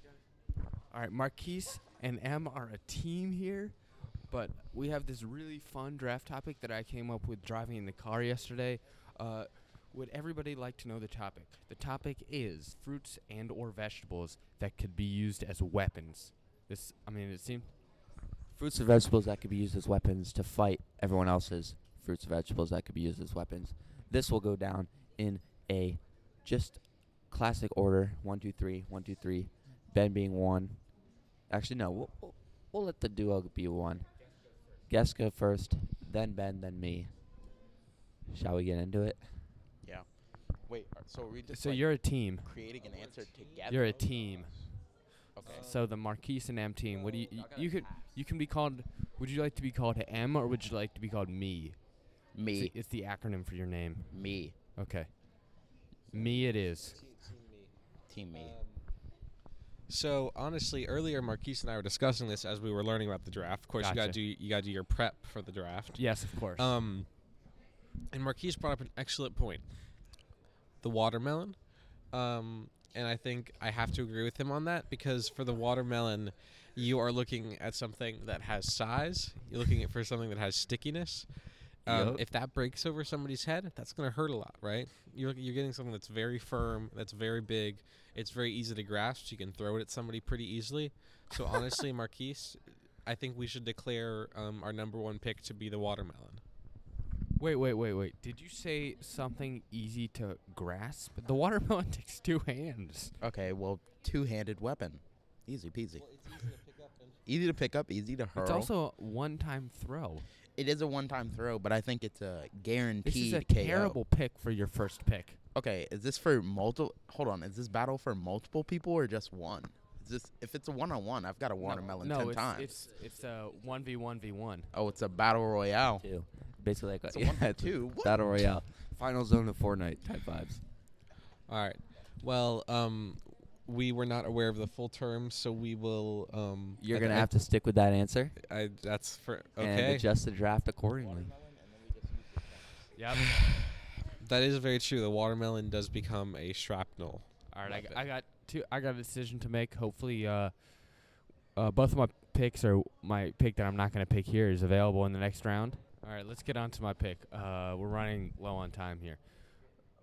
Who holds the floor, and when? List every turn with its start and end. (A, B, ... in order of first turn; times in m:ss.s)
0:00.9-0:17.7 A
0:18.5-0:30.9 B
0:31.5-0:34.1 B
0:34.9-0:37.1 B
0:38.3-0:39.2 B
0:40.7-0:44.1 C
0:41.5-0:42.5 A
0:42.8-0:44.2 D
0:43.7-0:44.9 A
0:45.4-0:45.7 C
0:45.4-0:45.9 D
0:45.4-0:55.4 A
0:52.3-0:52.7 C
0:54.1-0:54.5 C
0:56.1-0:57.0 A
0:56.6-0:57.7 D
0:58.1-0:58.6 C
0:58.3-0:58.9 D
0:59.9-1:07.2 D
1:03.8-1:04.2 A
1:06.0-1:06.7 A
1:08.1-1:09.7 D
1:10.8-1:36.4 D
1:21.9-1:22.2 B
1:37.4-1:43.2 A
1:43.2-1:46.4 C
1:46.0-1:47.2 D
1:47.3-1:48.7 C
1:48.4-1:50.3 A
1:50.6-1:54.0 C
1:53.0-1:55.4 A
1:55.6-2:02.8 C
2:01.6-2:04.7 A
2:04.7-2:06.1 C
2:06.0-2:10.6 B
2:07.1-2:08.2 C
2:11.5-2:17.3 D
2:16.8-2:18.4 B
2:18.4-2:20.1 D
2:19.6-2:21.3 B
2:21.0-2:22.9 C
2:23.0-2:23.3 A
2:24.2-2:28.0 D
2:27.5-2:39.4 A